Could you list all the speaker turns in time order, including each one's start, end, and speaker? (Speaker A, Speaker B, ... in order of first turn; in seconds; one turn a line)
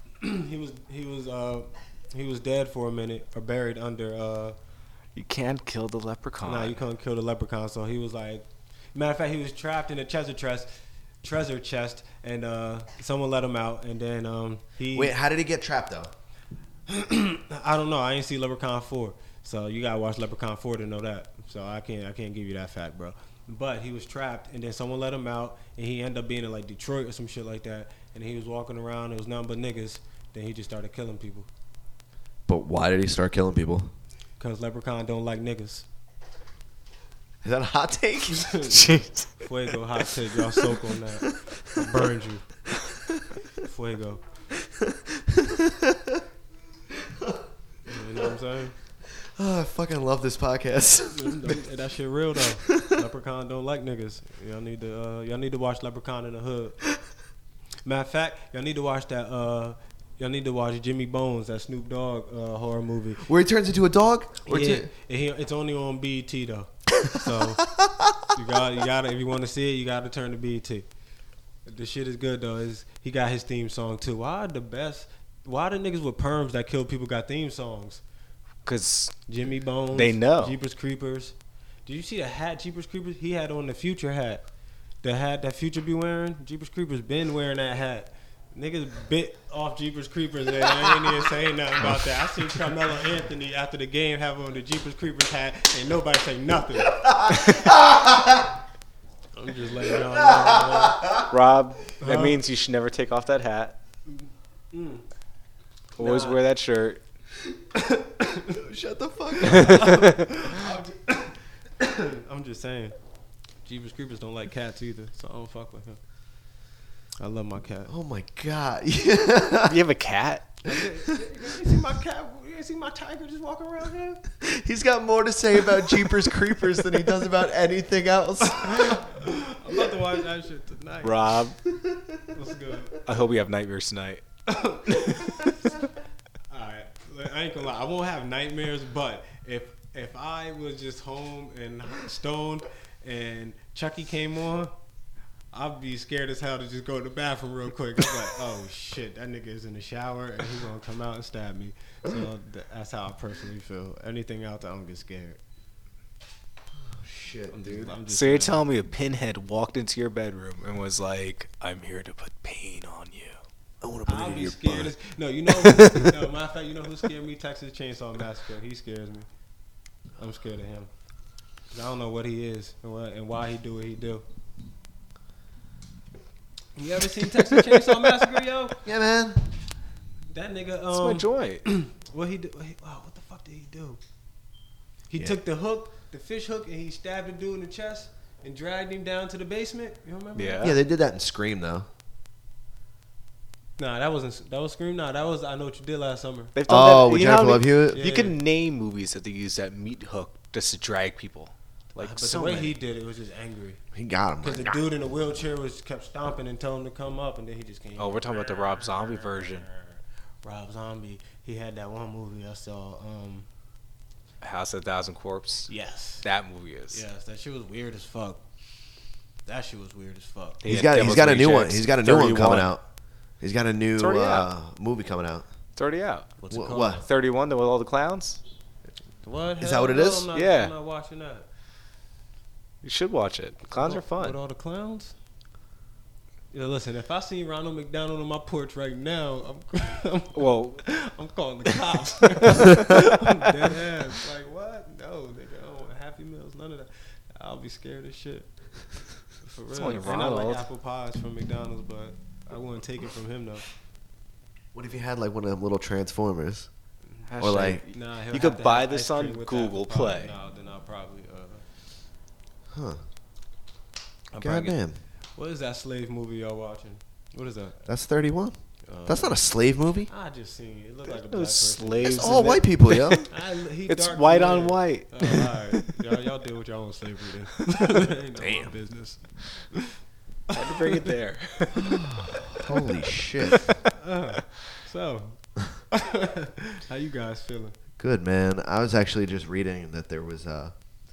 Speaker A: 0.2-4.6
Speaker B: 5.2-6.8
Speaker A: 6.4-10.7
Speaker A: 11.2-15.2
Speaker C: 14.9-16.1
Speaker A: 16.9-31.5
Speaker C: 32.5-33.9
Speaker A: 34.4-35.9
Speaker C: 37.4-39.0
Speaker A: 38.3-42.5
Speaker B: 38.7-39.3
Speaker A: 43.5-44.2
Speaker C: 44.8-46.2
Speaker A: 47.9-48.8
Speaker C: 49.2-51.6
Speaker A: 51.1-56.8
Speaker A: 57.8-63.3
Speaker C: 63.2-64.9
Speaker A: 64.5-67.7
Speaker C: 67.8-68.1
Speaker A: 68.3-70.9
Speaker A: 71.7-78.0
Speaker B: 78.7-79.2
Speaker A: 79.3-81.3
Speaker B: 79.9-80.6
Speaker A: 81.9-84.4
Speaker A: 85.0-97.0
Speaker C: 97.0-98.6
Speaker A: 99.3-101.1
Speaker C: 100.3-101.3
Speaker B: 101.3-103.8
Speaker A: 102.0-102.4
Speaker A: 104.1-105.0
Speaker B: 106.0-107.0
Speaker A: 106.0-106.4
Speaker A: 107.8-108.5
Speaker C: 108.5-110.1
Speaker A: 109.4-113.0
Speaker B: 109.7-110.0
Speaker A: 113.7-116.0
Speaker A: 117.2-117.9
Speaker C: 117.9-119.8
Speaker B: 119.7-120.6
Speaker A: 120.7-124.2
Speaker C: 124.4-129.1
Speaker A: 128.7-131.2
Speaker B: 131.0-131.6
Speaker A: 132.3-133.0
Speaker B: 133.1-134.2
Speaker A: 134.5-135.6
Speaker B: 134.9-135.3
Speaker A: 136.5-144.8
Speaker A: 145.5-155.4
Speaker C: 156.8-157.9
Speaker A: 157.5-158.6
Speaker B: 158.1-163.4
Speaker C: 163.8-164.9
Speaker A: 164.1-169.3
Speaker A: 170.2-170.9
Speaker A: 171.7-174.2
Speaker A: 176.8-178.8
Speaker C: 178.8-179.5
Speaker A: 180.3-184.0
Speaker B: 180.9-181.6
Speaker A: 185.1-190.8
Speaker B: 190.4-190.8
Speaker C: 190.6-191.9
Speaker A: 193.8-196.5
Speaker B: 196.6-202.8
Speaker C: 196.7-198.0
Speaker A: 197.9-198.3
Speaker A: 202.0-203.8
Speaker C: 203.9-204.8
Speaker A: 204.4-213.5
Speaker B: 208.0-209.7
Speaker B: 214.4-215.7
Speaker A: 215.7-216.3
Speaker B: 216.2-217.0
Speaker A: 216.9-218.4
Speaker A: 219.5-220.6
Speaker B: 220.6-222.8
Speaker C: 220.7-222.8
Speaker C: 223.4-225.5
Speaker B: 224.0-224.5
Speaker B: 225.8-226.4
Speaker A: 226.4-227.1
Speaker C: 226.5-227.0
Speaker B: 227.0-228.4
Speaker A: 229.2-231.5
Speaker C: 229.6-230.3
Speaker B: 230.3-230.7
Speaker B: 232.8-234.4
Speaker A: 233.8-235.2
Speaker A: 236.5-248.5
Speaker B: 240.3-240.9
Speaker A: 249.4-253.7
Speaker B: 249.7-250.7
Speaker C: 254.7-256.7
Speaker A: 257.2-261.6
Speaker B: 257.3-260.3
Speaker C: 257.4-257.8
Speaker C: 262.7-263.0
Speaker B: 264.4-264.7
Speaker C: 264.4-265.0
Speaker A: 265.4-267.8
Speaker C: 267.9-270.1
Speaker A: 268.9-269.4
Speaker A: 270.1-272.7
Speaker B: 271.3-273.4
Speaker C: 272.0-273.3
Speaker A: 273.3-280.0
Speaker B: 273.9-275.8
Speaker C: 278.4-278.7
Speaker A: 280.5-281.1
Speaker B: 280.5-282.0
Speaker C: 281.8-283.8
Speaker A: 283.9-287.8
Speaker C: 288.0-290.7